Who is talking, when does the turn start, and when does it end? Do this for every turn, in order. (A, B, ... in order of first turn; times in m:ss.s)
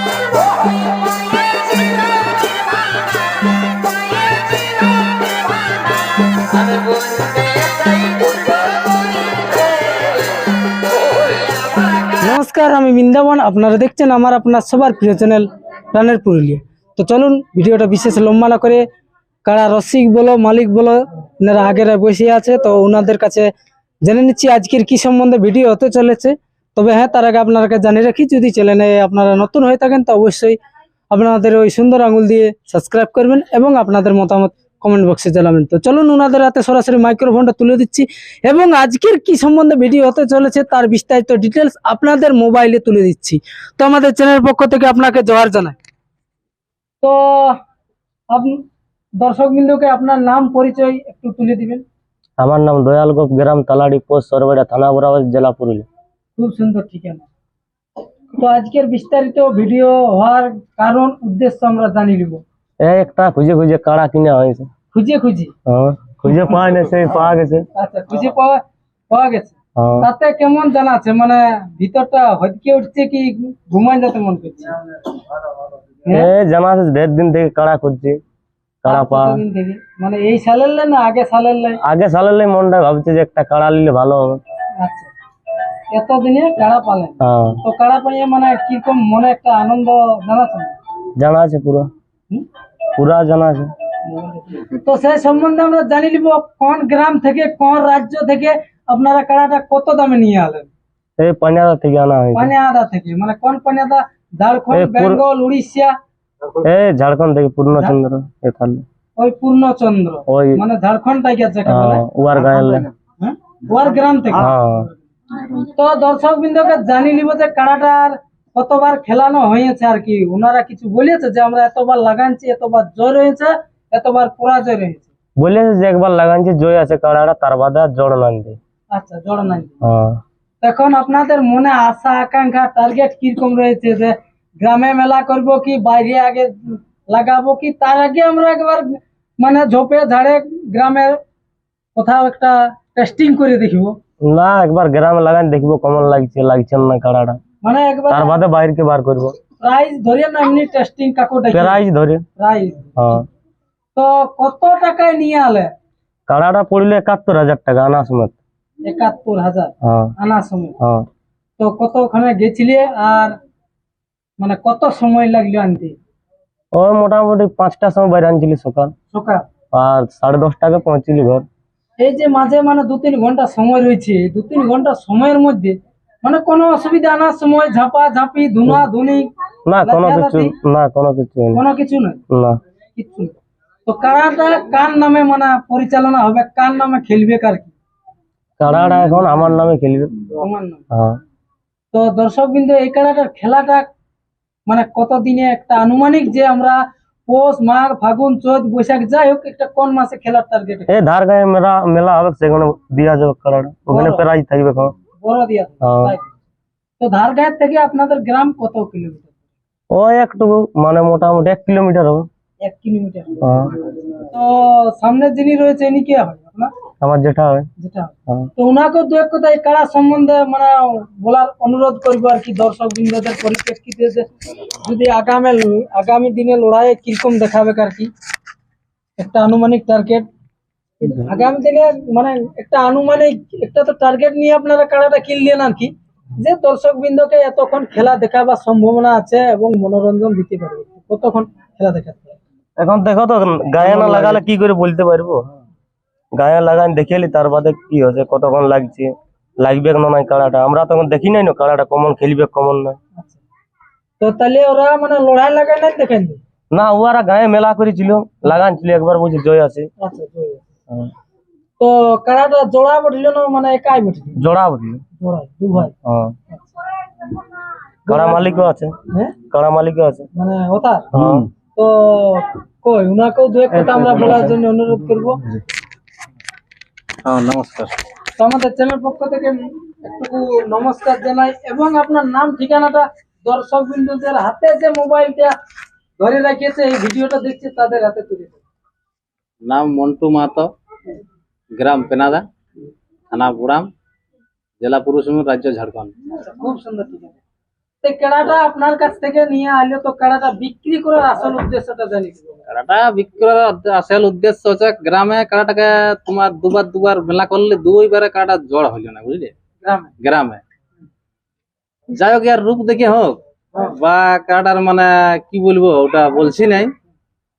0:06.6-0:07.6 A
0:12.2-0:18.8 B
0:19.4-0:23.5 B
0:24.0-0:30.6 B
0:31.1-0:45.8 B
0:47.0-0:47.6 B
0:48.3-0:48.6 B
0:49.2-0:51.8 B
0:52.4-0:55.8 C
0:56.4-0:57.3 B
0:58.3-1:02.4 B
1:02.8-1:04.7 C
1:04.9-1:05.5 B
1:05.6-1:07.6 C
1:07.8-1:14.8 B
1:09.8-1:10.1 C
1:16.0-1:16.3 B
1:16.1-1:18.2 C
1:18.8-1:19.4 C
1:18.8-1:21.8 B
1:21.8-1:24.4 C
1:24.8-1:25.1 B
1:25.9-1:30.7 B
1:27.2-1:27.6 C
1:31.2-1:31.9 C
1:33.0-1:33.7 C
1:34.0-1:40.7 B
1:41.2-1:42.5 C
1:42.3-1:45.9 B
1:44.7-1:45.2 C
1:46.6-1:48.8 C
1:49.2-1:52.0 B
1:50.3-1:50.6 C
1:51.6-1:52.9 C
1:53.2-1:54.5 B
1:54.3-1:54.9 C
1:55.5-2:05.1 B
2:05.4-2:08.6 C
2:08.9-2:09.8 B
2:09.8-2:10.2 C
2:10.6-2:21.2 B
2:21.9-2:23.9 B
2:24.2-2:27.4 C
2:27.6-2:28.4 B
2:28.1-2:29.4 C
2:29.6-2:31.8 B
2:31.5-2:32.2 C
2:32.4-2:33.1 B
2:33.0-2:33.2 C
2:33.9-2:35.7 B
2:36.3-2:38.4 C
2:38.8-2:40.8 B
2:39.8-2:40.1 C
2:40.8-2:41.0 C
2:41.6-2:43.3 B
2:44.4-2:45.9 B
2:46.7-2:48.9 C
2:49.1-2:49.4 B
2:49.7-2:51.4 C
2:52.0-2:59.3 B
2:59.6-3:01.6 C
2:59.8-3:00.6 B
3:01.5-3:02.2 B
3:02.3-3:02.6 C
3:03.0-3:03.3 B
3:03.8-3:07.7 B
3:08.6-3:10.1 C
3:10.4-3:10.8 B
3:10.9-3:11.2 C
3:11.9-3:13.9 B
3:14.7-3:20.9 B
3:20.9-3:24.9 C
3:23.9-3:24.2 B
3:25.2-3:26.3 B
3:25.8-3:26.1 C
3:27.0-3:29.3 B
3:29.9-3:32.2 C
3:32.6-3:33.4 B
3:33.4-3:33.8 C
3:34.3-3:36.7 B
3:37.0-3:37.7 C
3:37.8-3:48.1 B
3:49.2-3:50.2 B
3:51.0-4:02.4 B
4:02.8-4:05.4 C
4:03.8-4:04.4 B
4:06.3-4:13.0 C
4:14.2-4:16.4 B
4:16.7-4:19.9 C
4:20.0-4:20.6 B
4:21.8-4:24.4 B
4:24.4-4:25.0 C
4:25.2-4:25.9 B
4:26.0-4:26.3 C
4:28.1-4:28.4 B
4:28.1-4:28.9 C
4:29.1-4:29.4 B
4:29.5-4:30.3 C
4:30.3-4:31.1 B
4:31.1-4:31.4 C
4:31.1-4:31.5 A
4:31.8-4:35.4 B
4:33.7-4:34.6 C
4:37.2-4:37.9 A
4:38.4-4:45.5 B
4:46.2-4:48.6 B
4:49.6-4:50.7 A
4:51.7-4:52.4 A
4:53.3-4:53.9 A
4:54.8-4:56.1 A
4:56.3-4:57.4 B
4:58.0-5:02.6 B
5:02.7-5:09.5 A
5:09.8-5:10.1 B
5:10.2-5:10.6 A
5:12.1-5:16.9 A